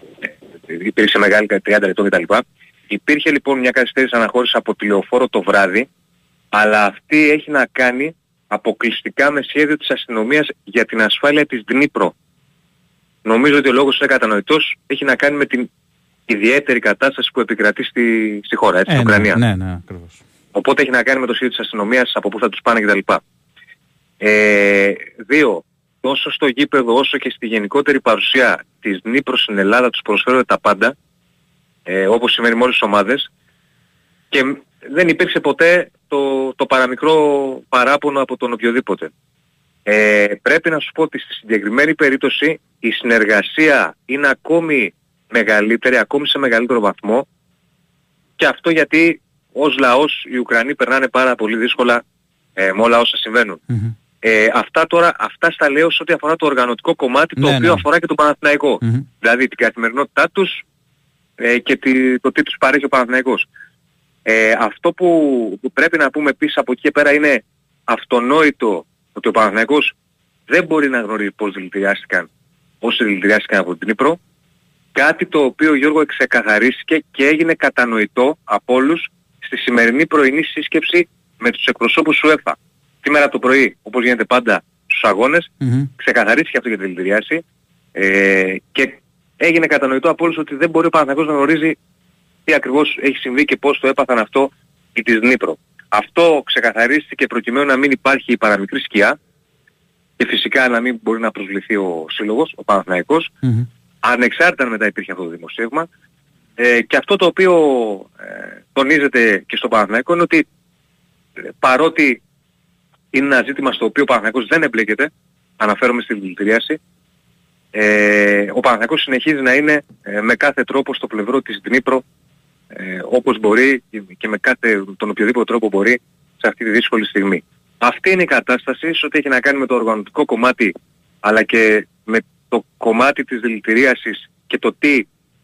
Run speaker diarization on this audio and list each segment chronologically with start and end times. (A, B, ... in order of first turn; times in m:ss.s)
0:00.2-0:05.9 A
0:06.5-0:12.1 A
0:13.2-0:15.7 A
0:16.3-0:19.4 A
0:18.9-0:20.2 B
0:20.5-0:23.2 A
0:24.2-0:30.9 A
0:31.8-0:33.3 A
0:34.3-0:39.1 A
0:39.8-0:47.2 A
0:48.4-0:52.0 A
0:52.6-0:53.6 A
0:54.2-1:00.6 A
0:57.4-0:57.8 B
1:01.4-1:03.4 A
1:04.2-1:09.9 A
1:10.5-1:12.3 A
1:12.8-1:14.2 A
1:14.9-1:27.4 A
1:25.6-1:25.9 B
1:27.9-1:31.8 A
1:32.4-1:39.2 A
1:40.2-1:43.3 A
1:44.0-1:45.9 A
1:46.6-1:50.4 A
1:51.6-1:52.2 A
1:53.1-1:56.8 A
1:57.7-2:02.0 A
2:02.7-2:15.0 A